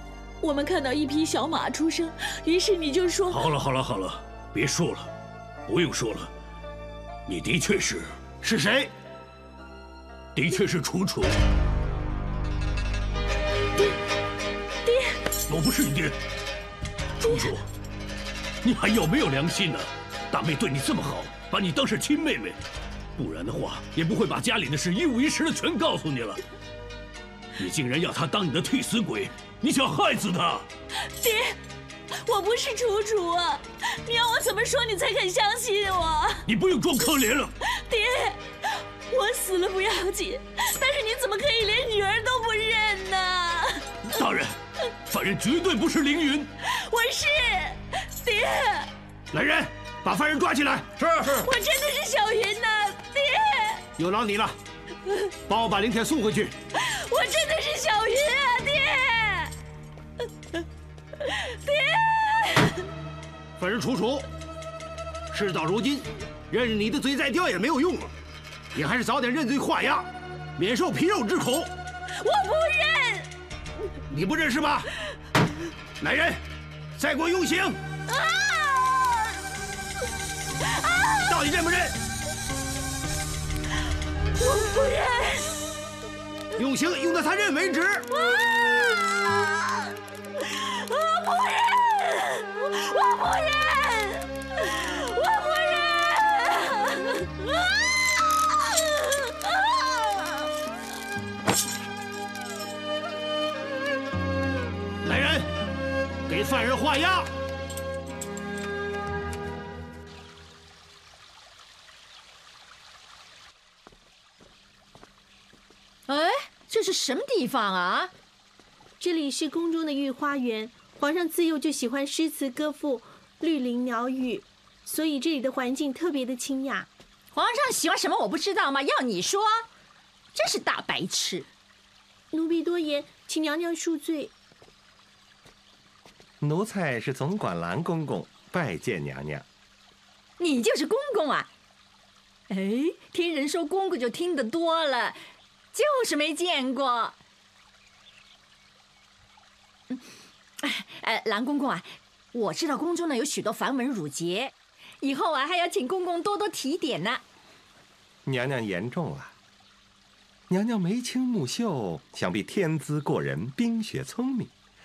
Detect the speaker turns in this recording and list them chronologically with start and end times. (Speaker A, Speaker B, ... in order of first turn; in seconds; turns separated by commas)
Speaker A: 0.4-3.4, Speaker B: 3.3-5.1, Speaker B: 5.7-6.3, Speaker B: 7.3-8.2, Speaker C: 8.4-8.9, Speaker B: 10.3-11.4, Speaker A: 14.9-15.2, Speaker B: 15.5-16.2, Speaker A: 17.2-17.6, Speaker B: 17.2-17.6, Speaker B: 18.6-22.6, Speaker B: 23.2-26.4, Speaker B: 27.6-30.7, Speaker A: 31.2-31.6, Speaker A: 32.2-36.4, Speaker B: 36.5-37.5, Speaker A: 37.6-38.4, Speaker A: 39.1-43.9, Speaker B: 44.1-44.6, Speaker B: 45.1-46.5, Speaker A: 46.7-48.9, Speaker C: 49.3-51.0, Speaker A: 51.2-53.9, Speaker C: 54.0-54.6, Speaker C: 55.5-56.5, Speaker A: 56.8-59.5, Speaker A: 61.5-62.8, Speaker C: 63.6-64.2, Speaker C: 65.3-68.1, Speaker C: 68.7-71.7, Speaker A: 72.2-73.3, Speaker C: 74.1-74.9, Speaker C: 76.0-76.4, Speaker C: 77.0-77.8, Speaker A: 78.1-79.3, Speaker A: 80.9-81.3, Speaker C: 81.3-82.0, Speaker A: 84.4-85.5, Speaker C: 86.6-88.1, Speaker A: 88.1-89.8, Speaker A: 90.6-97.8, Speaker A: 98.5-100.5, Speaker C: 105.0-105.5, Speaker C: 106.3-107.3, Speaker D: 116.1-118.1, Speaker E: 119.0-126.9, Speaker D: 127.3-129.7, Speaker D: 130.3-131.5, Speaker E: 132.3-134.3, Speaker F: 136.4-139.5, Speaker D: 140.4-141.5, Speaker D: 142.5-145.2, Speaker D: 145.7-147.2, Speaker D: 150.6-157.2, Speaker F: 158.3-159.3, Speaker F: 160.5-164.5